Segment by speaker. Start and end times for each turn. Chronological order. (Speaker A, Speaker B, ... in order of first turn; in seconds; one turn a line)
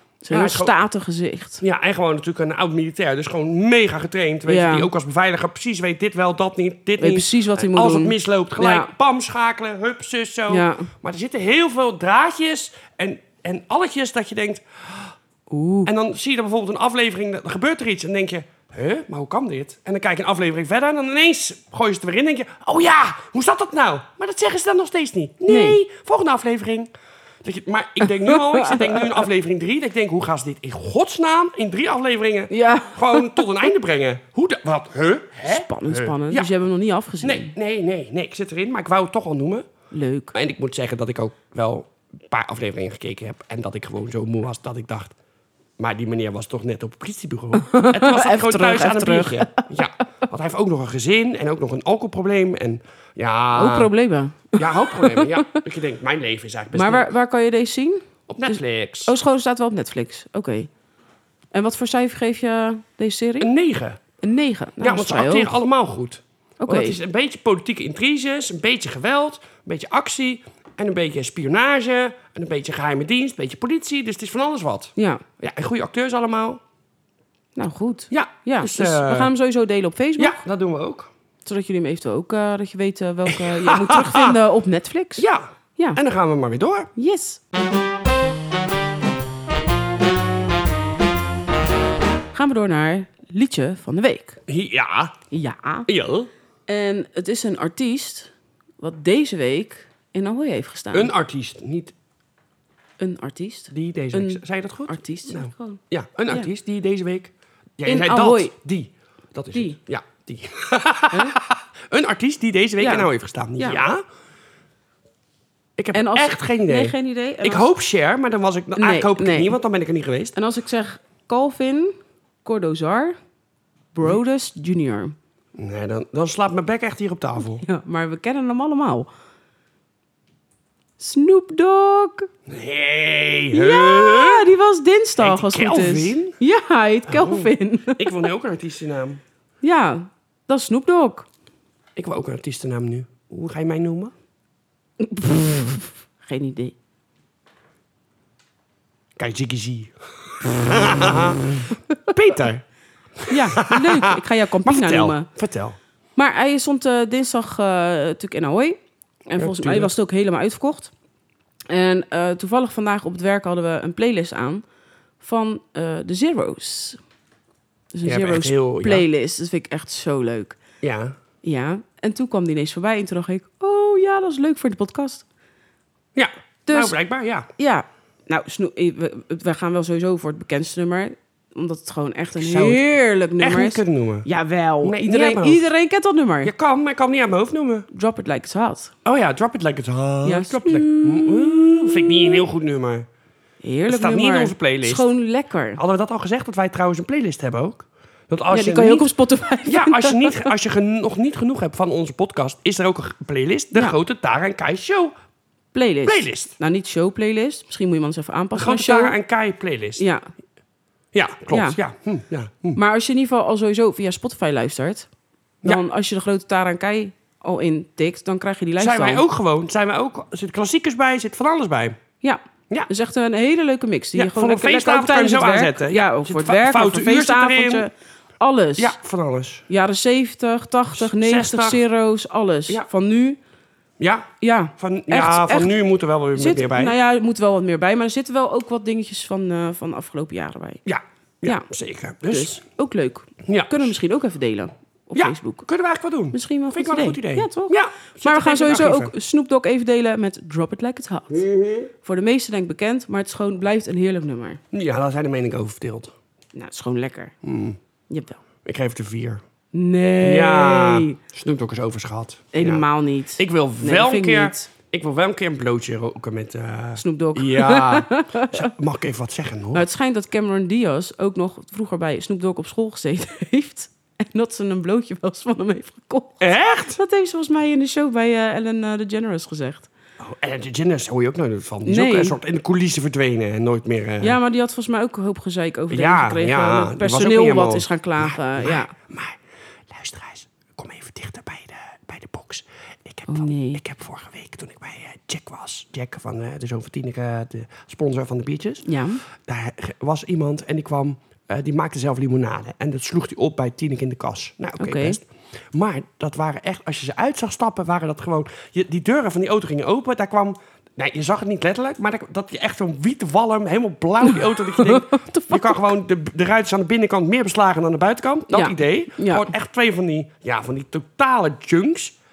Speaker A: 0.2-1.6
Speaker B: 0.3-0.7
Speaker B: 1.6-15.1
Speaker A: 4.5-4.9
Speaker A: 7.0-8.9
Speaker A: 10.5-10.9
Speaker A: 15.5-15.9
Speaker B: 15.8-26.9
Speaker A: 25.5-25.8
Speaker B: 27.4-36.5
Speaker A: 28.2-29.2
Speaker A: 32.5-33.4
Speaker A: 35.4-37.5
Speaker B: 37.2-39.7
Speaker A: 39.9-40.3
Speaker B: 40.3-45.1
Speaker B: 45.8-53.9
Speaker A: 47.6-49.7
Speaker A: 53.5-55.5
Speaker B: 54.5-57.1
Speaker A: 56.7-60.7
Speaker B: 58.3-59.1
Speaker A: 61.5-63.5
Speaker B: 63.4-64.0
Speaker A: 64.2-65.5
Speaker B: 64.8-76.6
Speaker A: 66.6-67.0
Speaker A: 75.0-75.2
Speaker A: 77.5-80.4
Speaker B: 78.1-79.3
Speaker B: 80.2-81.1
Speaker A: 81.4-85.2
Speaker B: 83.3-84.3
Speaker B: 85.2-86.9
Speaker A: 87.0-87.4
Speaker A: 92.3-94.4
Speaker B: 94.5-95.2
Speaker A: 95.3-95.9
Speaker B: 95.9-96.3
Speaker A: 96.7-101.1
Speaker B: 100.9-101.9
Speaker A: 103.0-106.5
Speaker B: 103.7-114.0
Speaker A: 107.8-108.5
Speaker A: 112.8-113.8
Speaker B: 115.8-120.3
Speaker A: 115.9-117.7
Speaker A: 118.8-119.5
Speaker A: 120.3-123.2
Speaker A: 123.9-125.1
Speaker B: 125.5-127.6
Speaker A: 127.6-129.1
Speaker A: 131.0-132.3
Speaker B: 132.5-134.5
Speaker A: 133.5-138.1
Speaker B: 135.2-136.3
Speaker B: 137.1-139.2
Speaker A: 139.6-141.3
Speaker B: 141.9-144.1
Speaker A: 145.0-146.7
Speaker B: 149.2-152.6
Speaker B: 153.2-155.8
Speaker A: 153.3-155.3
Speaker A: 156.2-160.9
Speaker B: 159.4-159.9
Speaker A: 161.7-164.6
Speaker A: 165.2-167.0
Speaker A: 167.9-170.6
Speaker B: 168.0-169.0
Speaker B: 170.8-171.1
Speaker A: 171.4-175.2
Speaker B: 176.1-177.5
Speaker A: 176.7-176.9
Speaker A: 177.6-186.5
Speaker B: 182.4-182.8
Speaker B: 183.4-184.2
Speaker B: 184.8-185.7
Speaker B: 186.4-187.9
Speaker A: 187.9-188.9
Speaker B: 189.0-193.1
Speaker A: 190.2-192.4
Speaker A: 193.6-195.8
Speaker B: 193.9-195.0
Speaker B: 195.8-199.1
Speaker A: 198.5-200.5
Speaker B: 199.7-205.1
Speaker A: 205.7-209.2
Speaker B: 206.0-206.5
Speaker B: 208.6-210.0
Speaker A: 210.0-210.2
Speaker B: 211.1-212.8
Speaker A: 211.5-211.8
Speaker A: 212.8-215.1
Speaker A: 215.6-219.2
Speaker B: 218.8-222.0
Speaker A: 222.2-228.9
Speaker B: 224.1-227.8
Speaker B: 228.8-229.6
Speaker A: 229.7-233.4
Speaker B: 230.9-231.8
Speaker B: 234.0-236.9
Speaker A: 234.4-235.7
Speaker A: 236.3-240.8
Speaker B: 240.8-242.6
Speaker A: 242.3-245.6
Speaker B: 243.4-243.9
Speaker B: 245.1-249.1
Speaker A: 246.3-251.5
Speaker B: 251.3-251.9
Speaker A: 252.0-254.6
Speaker B: 254.7-256.1
Speaker A: 256.5-257.3
Speaker B: 257.4-257.8
Speaker A: 258.1-258.4
Speaker B: 258.6-259.4
Speaker A: 259.7-261.2
Speaker B: 260.2-262.9
Speaker A: 262.5-264.7
Speaker B: 263.4-269.8
Speaker A: 267.0-268.7
Speaker A: 269.7-279.9
Speaker B: 276.4-277.0
Speaker B: 280.2-284.4
Speaker A: 281.8-282.4
Speaker A: 284.2-288.9
Speaker B: 285.9-289.4
Speaker B: 289.9-322.1
Speaker A: 293.3-293.8
Speaker A: 298.8-299.2
Speaker A: 304.8-305.2
Speaker A: 314.6-315.8
Speaker A: 318.5-319.5